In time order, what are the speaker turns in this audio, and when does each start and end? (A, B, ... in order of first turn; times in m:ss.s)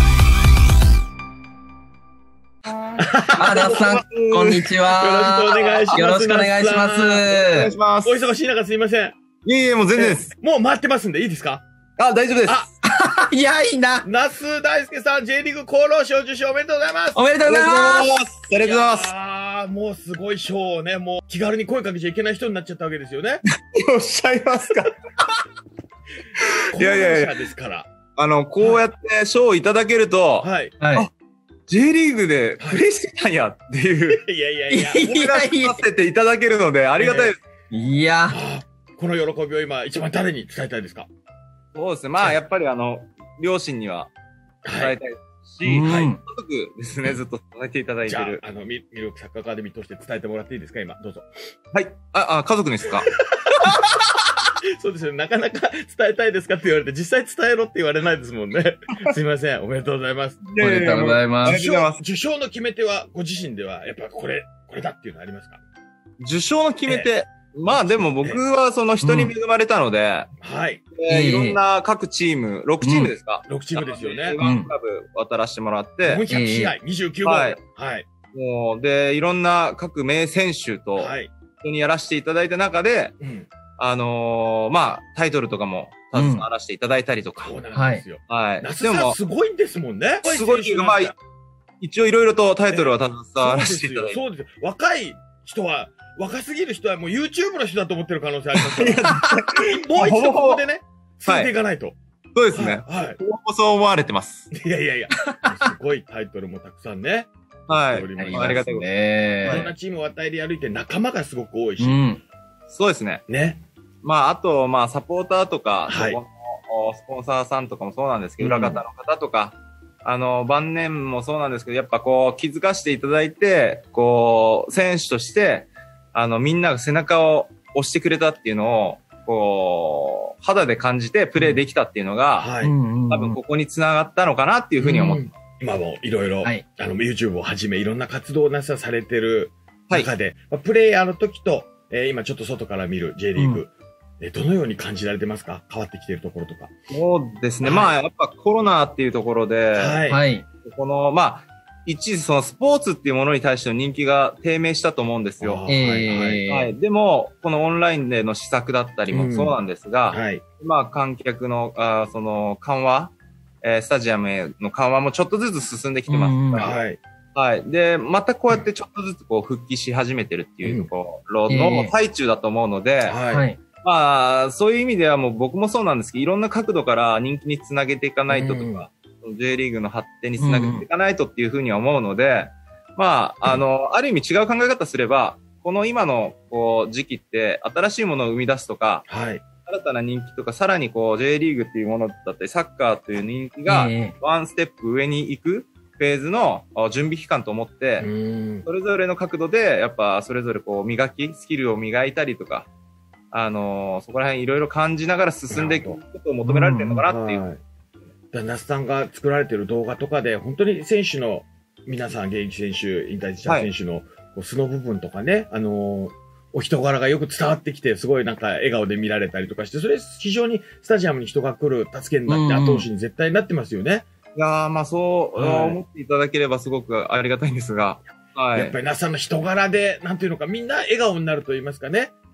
0:03.0-0:03.8 A
0:03.4-0:07.7 B
0:03.4-0:04.7 C
0:05.0-0:07.3 A
0:07.3-0:08.2 C
0:08.0-0:09.2 A
0:09.4-0:10.3 C
0:10.0-0:11.6 A
0:12.0-0:12.7 C
0:12.9-0:14.1 B
0:14.0-0:17.2 A
0:17.2-0:18.1 B
0:17.5-0:19.1 C
0:18.6-0:23.4 A
0:23.7-0:25.0 C
0:26.7-0:27.9 A
0:26.8-0:27.4 C
0:28.2-0:31.1 C
0:30.4-0:30.8 A
0:30.8-0:31.1 B
0:31.7-0:34.2 C
0:34.1-0:35.1 A
0:34.7-0:35.8 B
0:35.0-0:37.4 C
0:37.0-0:37.4 A
0:37.7-0:38.4 B
0:38.3-0:41.1 A
0:41.7-0:44.1 C
0:44.6-0:45.0 A
0:44.8-0:48.4 C
0:45.6-0:46.2 B
0:45.8-0:46.1 A
0:48.1-0:51.3 A
0:51.7-0:53.1 C
0:54.8-1:00.5 A
1:00.4-1:02.0 C
1:00.6-1:01.7 B
1:01.4-1:05.6 A
1:06.2-1:10.3 C
1:07.7-1:08.4 A
1:09.0-1:09.3 B
1:10.4-1:10.8 A
1:11.0-1:16.2 C
1:11.1-1:11.6 B
1:12.8-1:13.1 B
1:13.5-1:14.4 A
1:14.4-1:14.7 B
1:16.0-1:18.1 A
1:16.3-1:16.8 B
1:17.2-1:17.6 C
1:18.3-1:23.1 C
1:21.0-1:21.3 A
1:23.2-1:23.5 A
1:23.8-1:27.6 C
1:26.1-1:26.4 B
1:27.4-1:31.1 A
1:27.7-1:28.0 B
1:28.3-1:29.2 C
1:30.2-1:31.1 C
1:31.8-1:34.2 C
1:32.7-1:42.0 A
1:38.8-1:40.6 C
1:41.2-1:41.5 C
1:42.4-1:44.5 C
1:42.5-1:43.2 A
1:44.5-1:47.3 A
1:47.7-1:48.9 C
1:47.8-1:48.7 A
1:48.2-1:49.7 B
1:49.5-1:52.0 A
1:51.8-1:52.2 B
1:52.7-1:53.2 C
1:53.3-1:53.6 A
1:54.0-2:12.5 C
1:55.9-1:56.2 A
1:58.4-1:58.8 A
2:12.4-2:12.7 A
2:12.6-2:13.4 B
2:13.1-2:15.3 C
2:14.8-2:26.7 A
2:23.4-2:23.6 B
2:26.9-2:30.0 C
2:27.6-2:27.9 A
2:29.7-2:30.2 A
2:30.1-2:30.4 B
2:30.6-2:35.6 C
2:35.4-2:36.4 A
2:35.7-2:36.7 B
2:36.5-2:46.8 C
2:39.1-2:40.4 A
2:46.1-2:46.8 B
2:46.6-2:47.0 A
2:47.4-2:53.2 C
2:50.6-2:50.9 A
2:51.5-2:51.9 B
2:53.0-2:53.5 A
2:53.3-2:53.6 B
2:53.8-3:09.0 C
2:58.3-2:58.9 A
3:00.4-3:00.9 B
3:09.1-3:09.4 A
3:09.7-3:18.1 C
3:13.7-3:14.1 B
3:18.0-3:18.7 A
3:18.6-3:22.7 C
3:23.3-3:27.4 C
3:25.5-3:26.0 A
3:26.4-3:27.0 B
3:27.0-3:27.6 A
3:28.3-3:44.0 A
3:42.3-3:42.9 B
3:44.4-3:48.8 C
3:45.4-3:45.8 A
3:48.5-3:52.1 A